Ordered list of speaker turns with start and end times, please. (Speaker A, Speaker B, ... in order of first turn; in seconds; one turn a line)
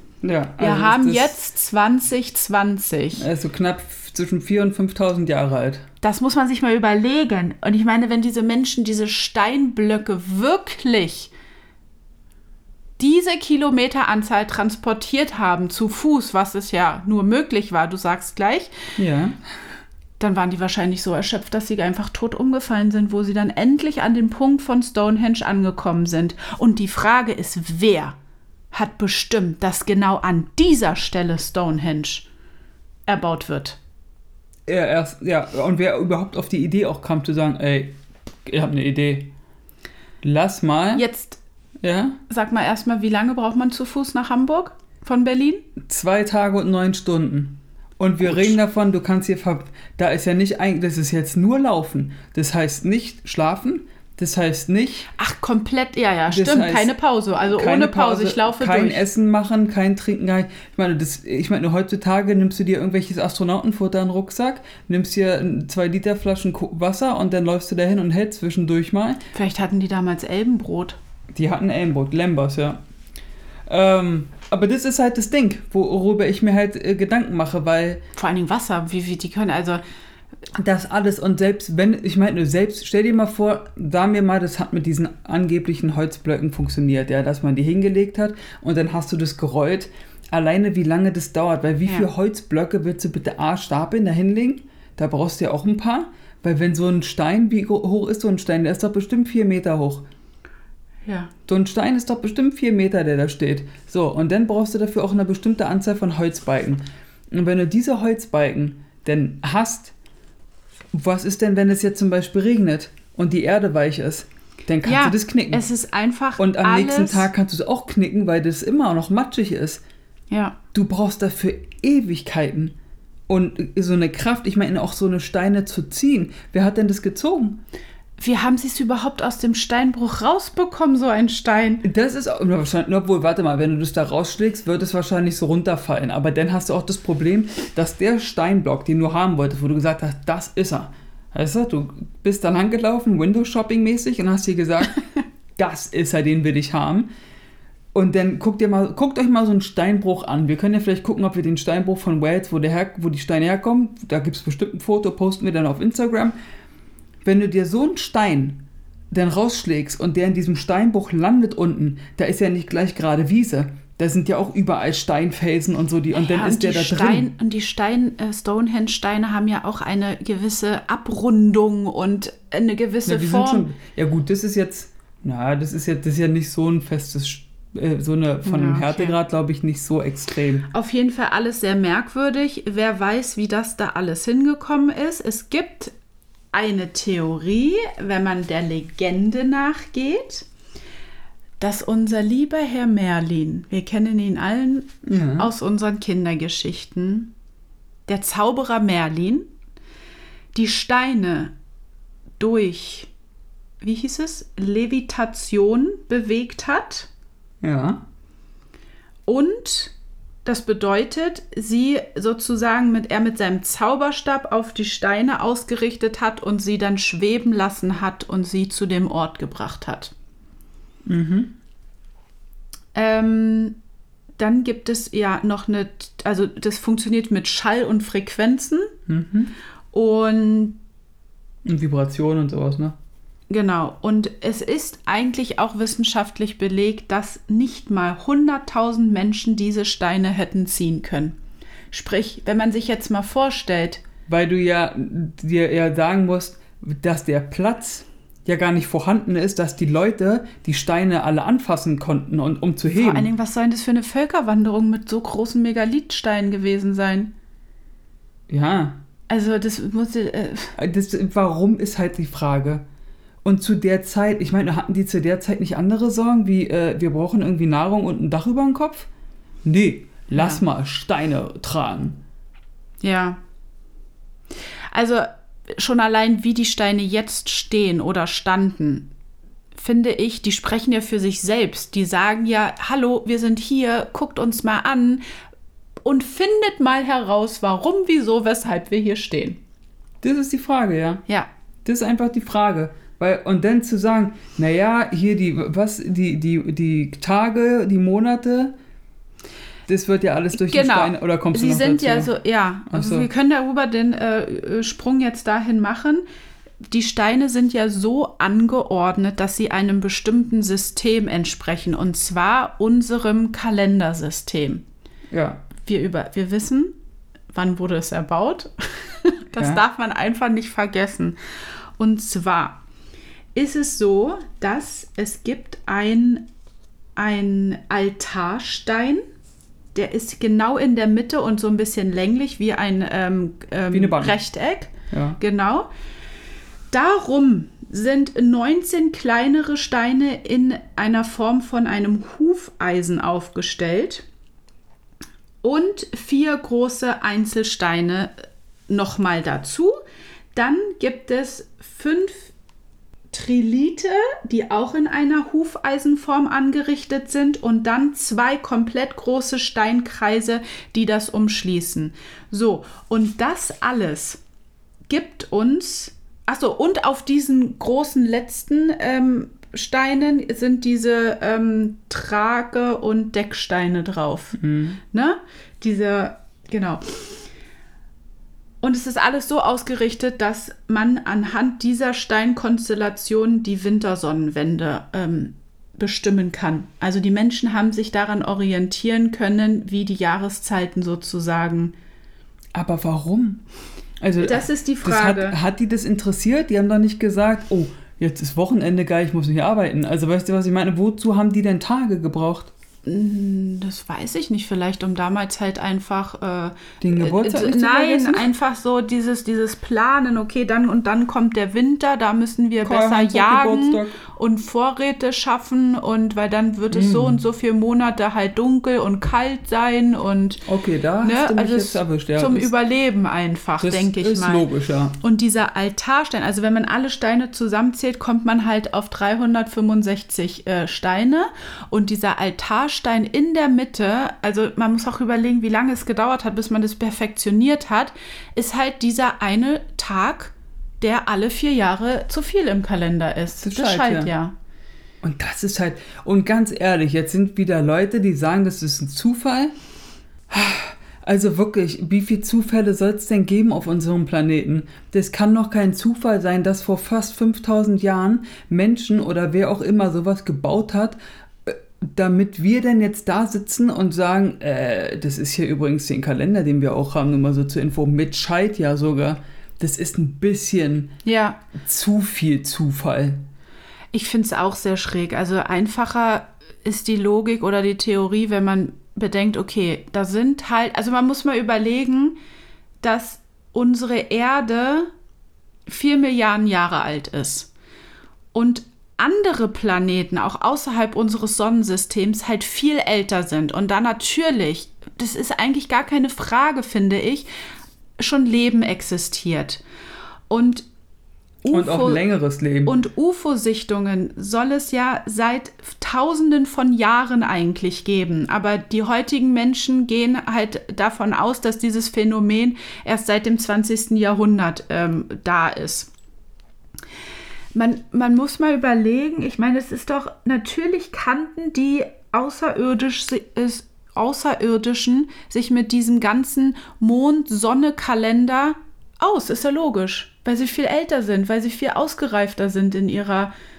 Speaker A: 0.2-1.3
Speaker B: 0.6-3.2
Speaker A: 3.2-5.8
Speaker B: 6.0-11.3
Speaker B: 13.0-18.8
Speaker A: 19.0-19.4
Speaker B: 20.2-28.1
Speaker B: 28.7-32.3
Speaker B: 33.1-33.8
Speaker A: 34.6-39.3
Speaker A: 40.2-41.0
Speaker B: 40.9-41.4
Speaker A: 41.8-42.2
Speaker B: 42.3-45.7
Speaker A: 45.8-55.1
Speaker B: 48.2-48.5
Speaker B: 55.2-59.0
Speaker A: 56.3-69.2
Speaker B: 69.3-71.0
Speaker A: 71.3-72.8
Speaker A: 73.7-78.0
Speaker B: 78.2-79.8
Speaker A: 80.5-100.0
Speaker B: 101.0-101.3
Speaker A: 101.5-109.9
Speaker A: 110.9-115.6
Speaker B: 114.8-117.3
Speaker A: 116.4-119.8
Speaker B: 120.3-120.5
Speaker A: 120.7-122.8
Speaker A: 123.3-127.6
Speaker B: 128.2-131.8
Speaker A: 131.8-147.1
Speaker A: 147.9-156.3
Speaker A: 157.2-167.3
Speaker B: 166.1-173.7
Speaker A: 173.1-180.7
Speaker B: 178.4-179.1
Speaker B: 180.7-185.9
Speaker B: 186.5-190.4
Speaker B: 191.6-197.3
Speaker A: 195.0-195.5
Speaker B: 198.1-199.5
Speaker B: 200.5-201.5
Speaker B: 202.4-203.1
Speaker B: 203.8-207.1
Speaker A: 207.6-208.0
Speaker B: 209.3-209.9
Speaker B: 210.4-220.1
Speaker A: 221.1-221.5
Speaker B: 222.9-223.8
Speaker B: 224.4-228.9
Speaker A: 229.1-229.5
Speaker B: 229.9-230.8
Speaker A: 231.6-232.9
Speaker B: 233.5-241.3
Speaker B: 241.9-244.0
Speaker A: 244.3-253.3
Speaker B: 252.9-257.3
Speaker A: 258.5-259.0
Speaker B: 259.3-260.7
Speaker A: 260.8-262.8
Speaker A: 263.4-269.1
Speaker A: 269.6-272.2
Speaker B: 270.3-270.6
Speaker B: 273.0-273.4
Speaker B: 274.9-279.1
Speaker B: 279.7-285.2
Speaker B: 286.0-289.6
Speaker A: 290.2-291.2
Speaker A: 291.8-298.8
Speaker A: 299.9-302.3
Speaker B: 300.5-306.2
Speaker A: 302.9-303.3
Speaker B: 306.9-314.8
Speaker A: 315.3-315.6
Speaker B: 315.8-316.9
Speaker B: 317.5-321.4
Speaker A: 319.6-319.8
Speaker B: 322.0-322.8
Speaker B: 323.5-326.4
Speaker B: 327.1-329.2
Speaker B: 329.9-335.9
Speaker A: 333.9-334.4
Speaker A: 335.1-335.4
Speaker B: 336.9-344.2
Speaker B: 345.6-348.3
Speaker B: 348.9-349.9
Speaker B: 350.5-352.5
Speaker B: 353.3-364.4
Speaker B: 365.1-374.6
Speaker A: 374.6-375.0
Speaker B: 375.1-377.0
Speaker B: 378.8-391.9
Speaker A: 392.7-393.6
Speaker A: 394.2-402.7
Speaker B: 394.4-395.6
Speaker B: 403.0-420.6
Speaker A: 407.0-408.5
Speaker A: 412.8-414.2
Speaker A: 416.9-417.4
Speaker A: 420.6-422.7
Speaker B: 421.2-424.6
Speaker A: 423.8-425.2
Speaker B: 425.2-444.5
Speaker A: 443.6-444.3
Speaker A: 445.2-449.7
Speaker A: 450.5-471.1
Speaker B: 471.2-471.6
Speaker A: 471.7-473.4
Speaker B: 474.1-482.4
Speaker B: 483.0-485.1
Speaker B: 485.9-487.7
Speaker B: 488.5-497.5
Speaker B: 498.2-499.8
Speaker B: 500.5-500.9
Speaker B: 501.6-502.2
Speaker A: 501.7-502.9
Speaker B: 502.9-516.1
Speaker B: 517.7-533.5